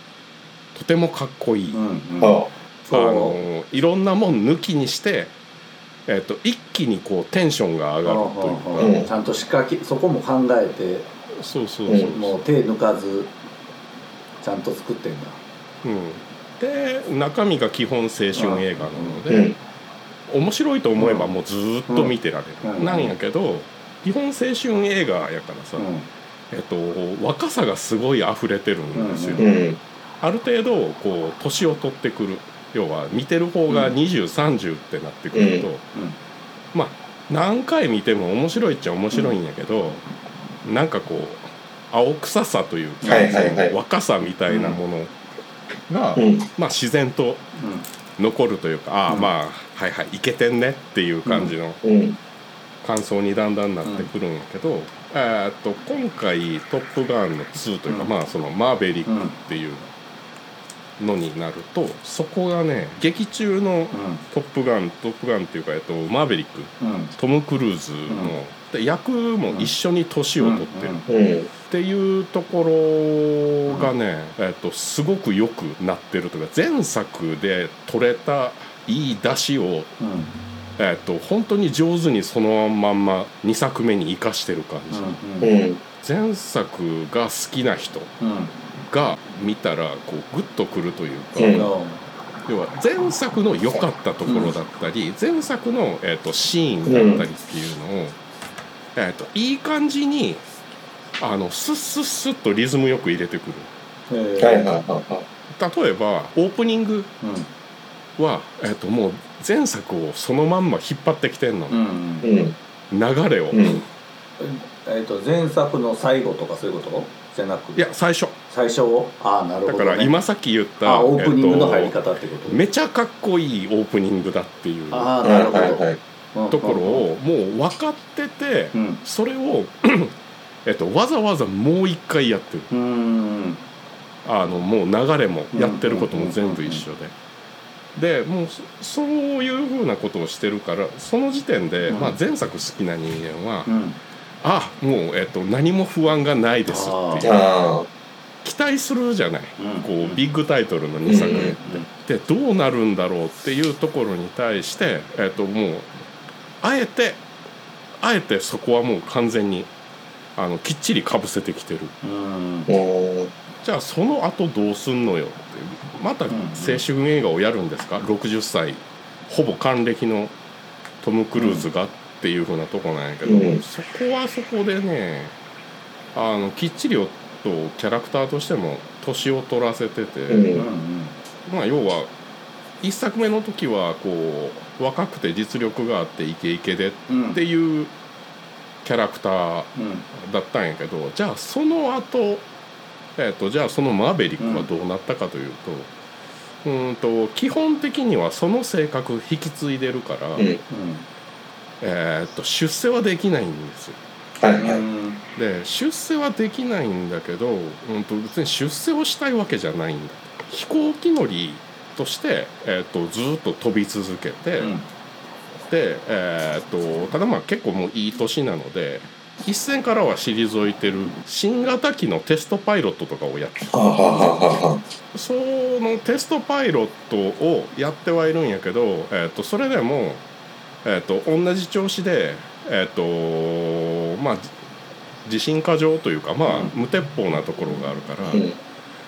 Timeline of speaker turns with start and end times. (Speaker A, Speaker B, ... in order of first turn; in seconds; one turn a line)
Speaker A: 0.7-1.8
Speaker B: 1.7-3.4
Speaker C: 2.2-2.5
Speaker A: 2.9-5.3
Speaker A: 6.1-8.9
Speaker B: 8.0-11.1
Speaker C: 8.8-9.1
Speaker A: 11.4-12.3
Speaker B: 12.1-13.3
Speaker B: 14.4-15.4
Speaker A: 15.8-19.5
Speaker B: 18.3-19.2
Speaker C: 19.3-19.6
Speaker A: 20.3-25.9
Speaker B: 21.0-21.3
Speaker B: 21.9-23.1
Speaker B: 25.8-26.1
Speaker A: 26.5-29.4
Speaker B: 28.9-29.5
Speaker C: 29.4-29.8
Speaker A: 30.2-35.8
Speaker C: 35.3-35.7
Speaker A: 36.7-40.0
Speaker A: 40.6-45.1
Speaker B: 43.0-43.5
Speaker C: 43.0-43.8
Speaker B: 44.5-44.8
Speaker A: 45.9-47.5
Speaker C: 46.1-46.5
Speaker B: 47.5-47.9
Speaker A: 48.2-51.8
Speaker B: 51.2-51.5
Speaker C: 51.8-52.2
Speaker A: 52.8-59.9
Speaker B: 53.8-54.1
Speaker B: 59.0-59.3
Speaker A: 61.0-71.0
Speaker B: 63.9-64.2
Speaker B: 66.8-67.1
Speaker B: 68.1-68.3
Speaker B: 70.4-71.1
Speaker C: 71.1-71.5
Speaker A: 71.7-79.9
Speaker B: 73.7-73.9
Speaker B: 80.0-80.3
Speaker A: 80.8-85.2
Speaker B: 84.9-85.5
Speaker C: 85.4-85.8
Speaker A: 86.0-88.1
Speaker B: 88.2-88.5
Speaker A: 88.9-91.7
Speaker C: 91.3-91.7
Speaker B: 91.5-92.0
Speaker A: 92.5-98.2
Speaker B: 94.2-94.5
Speaker C: 96.8-97.2
Speaker A: 98.9-100.4
Speaker A: 101.2-103.7
Speaker B: 104.1-104.7
Speaker C: 104.4-105.2
Speaker A: 105.5-107.1
Speaker B: 107.2-107.5
Speaker A: 108.2-111.8
Speaker B: 111.7-112.3
Speaker C: 112.2-112.6
Speaker A: 112.9-113.7
Speaker C: 113.5-113.8
Speaker B: 114.4-117.9
Speaker A: 117.7-118.3
Speaker B: 118.5-120.1
Speaker A: 119.7-122.0
Speaker B: 120.8-122.6
Speaker A: 122.5-125.1
Speaker B: 124.9-127.0
Speaker C: 125.2-126.0
Speaker A: 126.5-132.7
Speaker B: 128.7-129.0
Speaker B: 132.7-133.6
Speaker A: 134.2-137.1
Speaker B: 135.5-136.8
Speaker A: 137.9-143.7
Speaker B: 141.9-142.2
Speaker B: 143.7-144.0
Speaker A: 144.4-147.4
Speaker B: 146.7-147.3
Speaker C: 147.2-147.9
Speaker A: 148.4-155.9
Speaker B: 149.6-150.2
Speaker C: 151.0-151.6
Speaker B: 151.6-151.8
Speaker A: 156.6-157.2
Speaker A: 158.0-159.7
Speaker A: 160.3-161.9
Speaker B: 162.0-162.7
Speaker C: 162.7-163.3
Speaker A: 163.6-170.3
Speaker B: 166.3-166.8
Speaker A: 171.0-175.3
Speaker B: 171.3-171.7
Speaker C: 173.2-173.6
Speaker A: 176.1-180.6
Speaker C: 180.3-180.6
Speaker B: 180.5-181.2
Speaker A: 181.4-182.1
Speaker A: 182.8-187.9
Speaker B: 187.1-187.4
Speaker A: 188.8-192.5
Speaker B: 189.7-190.1
Speaker A: 193.2-195.9
Speaker B: 194.4-194.7
Speaker A: 196.6-200.5
Speaker B: 200.7-201.1
Speaker A: 201.8-204.0
Speaker C: 204.4-204.8
Speaker B: 204.6-205.2
Speaker A: 205.3-214.7
Speaker B: 214.6-214.9
Speaker A: 215.7-223.9
Speaker C: 223.7-224.8
Speaker B: 224.0-224.3
Speaker A: 225.1-230.2
Speaker A: 230.8-234.5
Speaker A: 235.2-238.4
Speaker B: 236.5-236.7
Speaker C: 238.3-238.6